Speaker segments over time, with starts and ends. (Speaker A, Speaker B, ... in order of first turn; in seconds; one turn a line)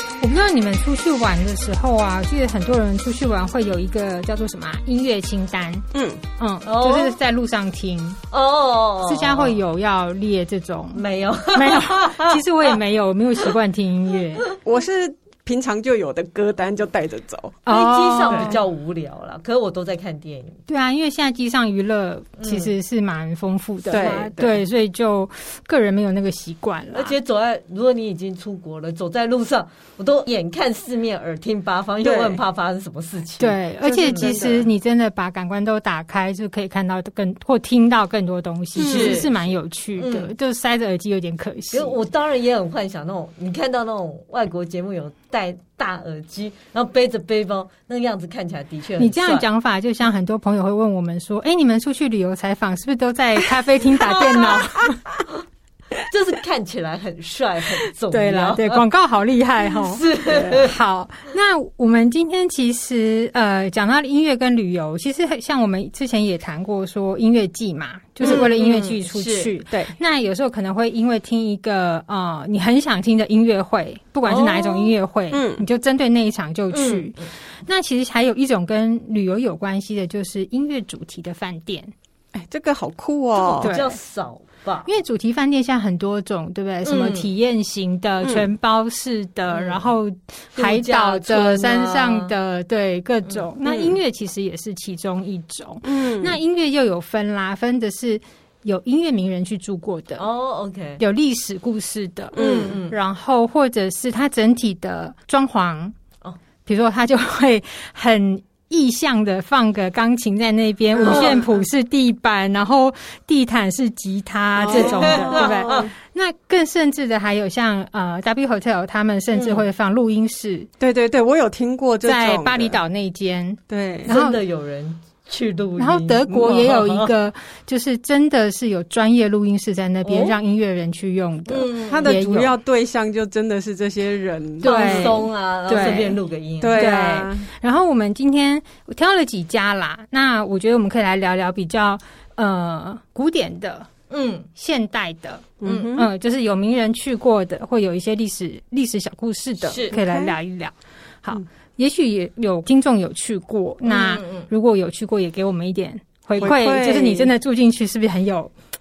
Speaker A: 0.2-5.9
Speaker B: 5.9-6.2
Speaker A: 6.4-8.2
Speaker C: 6.7-7.2
Speaker C: 8.3-9.6
Speaker A: 9.0-14.5
Speaker C: 10.9-12.8
Speaker B: 14.6-17.6
Speaker A: 17.6-18.6
Speaker C: 17.7-20.6
Speaker A: 20.7-27.2
Speaker C: 22.4-22.7
Speaker B: 23.9-24.6
Speaker C: 26.9-34.6
Speaker B: 32.0-32.4
Speaker A: 33.4-42.0
Speaker B: 33.8-34.6
Speaker B: 38.8-39.3
Speaker C: 38.8-39.3
Speaker C: 40.0-40.3
Speaker C: 41.7-49.5
Speaker A: 49.0-55.0
Speaker C: 54.0-54.7
Speaker C: 56.0-58.8
Speaker A: 58.1-81.9
Speaker C: 59.9-60.8
Speaker B: 60.3-60.6
Speaker C: 68.2-69.5
Speaker C: 74.3-74.9
Speaker B: 75.3-75.6
Speaker C: 76.7-77.3
Speaker B: 82.3-83.7
Speaker C: 83.5-84.9
Speaker A: 83.6-84.0
Speaker A: 84.8-100.2
Speaker C: 86.8-87.3
Speaker C: 89.5-89.9
Speaker C: 90.6-92.3
Speaker C: 93.3-94.0
Speaker B: 95.8-96.4
Speaker C: 100.2-101.0
Speaker A: 101.0-106.0
Speaker B: 102.3-102.8
Speaker C: 102.3-103.0
Speaker A: 106.7-120.7
Speaker C: 111.0-111.4
Speaker B: 111.0-111.4
Speaker B: 114.6-115.9
Speaker C: 114.7-115.9
Speaker C: 119.3-119.6
Speaker B: 120.8-122.8
Speaker A: 122.0-124.4
Speaker B: 123.7-124.1
Speaker C: 124.1-127.1
Speaker A: 125.8-132.5
Speaker C: 130.1-130.4
Speaker C: 131.5-132.2
Speaker B: 131.9-135.2
Speaker A: 134.6-136.2
Speaker C: 134.6-136.9
Speaker B: 135.8-136.0
Speaker B: 136.6-137.5
Speaker A: 136.8-143.9
Speaker C: 144.1-144.5
Speaker A: 144.6-158.5
Speaker B: 145.6-146.1
Speaker C: 145.7-146.0
Speaker C: 149.6-150.0
Speaker B: 149.9-150.3
Speaker C: 153.9-154.5
Speaker B: 156.4-157.3